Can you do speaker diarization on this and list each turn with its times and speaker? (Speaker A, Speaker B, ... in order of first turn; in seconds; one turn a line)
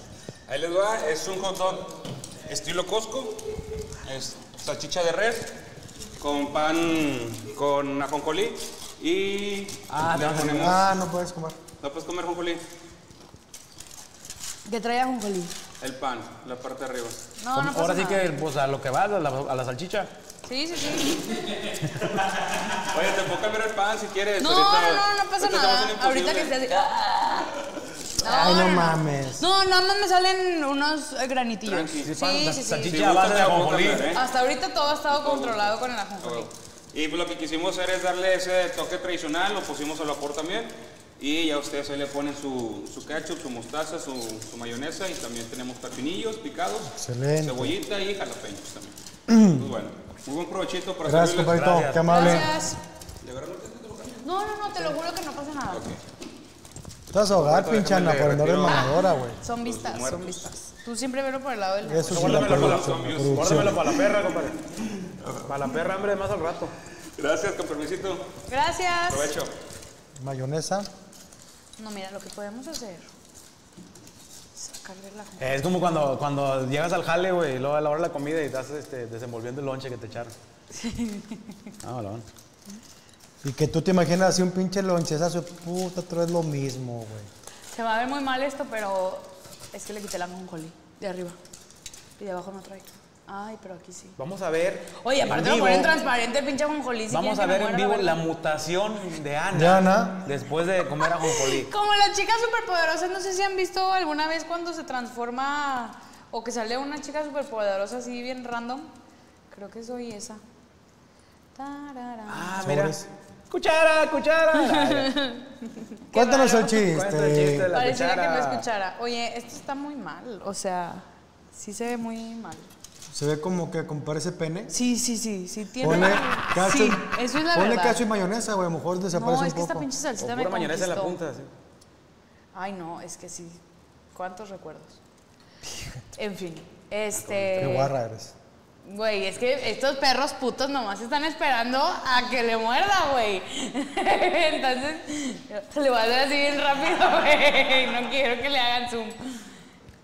Speaker A: 0.5-3.4
Speaker A: 4.0-5.5
Speaker A: 6.2-10.8
Speaker B: 9.9-10.8
Speaker C: 10.6-11.6
Speaker A: 11.8-12.6
Speaker D: 14.7-15.6
Speaker A: 15.8-17.2
Speaker D: 17.4-18.3
Speaker B: 17.5-20.1
Speaker D: 20.5-21.2
Speaker A: 22.5-26.6
Speaker D: 24.4-27.6
Speaker D: 28.2-33.0
Speaker C: 28.2-29.5
Speaker A: 31.6-32.1
Speaker B: 32.0-34.1
Speaker A: 32.9-34.2
Speaker D: 34.1-36.5
Speaker A: 35.1-52.4
Speaker C: 47.0-47.8
Speaker C: 49.3-49.6
Speaker C: 51.0-52.5
Speaker B: 51.5-52.4
Speaker D: 52.1-52.8
Speaker A: 53.2-54.2
Speaker D: 54.2-55.9
Speaker A: 55.7-56.0
Speaker C: 57.1-59.4
Speaker A: 57.1-59.0
Speaker D: 59.4-62.3
Speaker A: 59.5-60.5
Speaker C: 61.9-64.0
Speaker B: 62.1-64.6
Speaker A: 62.3-64.5
Speaker B: 65.4-66.7
Speaker A: 67.2-68.3
Speaker D: 68.5-69.3
Speaker A: 69.0-69.5
Speaker C: 70.2-70.9
Speaker D: 71.8-73.1
Speaker D: 74.6-75.7
Speaker B: 75.4-80.3
Speaker D: 80.7-81.7
Speaker B: 81.8-82.3
Speaker C: 83.4-87.3
Speaker D: 87.7-91.4
Speaker D: 92.2-94.2
Speaker B: 94.2-96.0
Speaker D: 95.0-98.2
Speaker B: 97.1-101.7
Speaker C: 99.5-100.3
Speaker D: 101.0-108.9
Speaker D: 109.5-110.4
Speaker D: 111.5-112.7
Speaker B: 112.3-113.0
Speaker C: 112.6-113.1
Speaker B: 113.5-115.2
Speaker D: 114.6-115.5
Speaker D: 116.1-116.8
Speaker C: 116.1-117.7
Speaker B: 116.7-118.7
Speaker D: 117.7-122.7
Speaker C: 123.1-124.7
Speaker D: 124.7-128.0
Speaker C: 125.8-129.9
Speaker D: 129.1-131.2
Speaker B: 130.2-131.5
Speaker D: 132.5-133.6
Speaker D: 134.1-135.0
Speaker D: 136.1-137.9
Speaker B: 137.2-137.8
Speaker C: 137.6-138.3
Speaker D: 138.8-149.2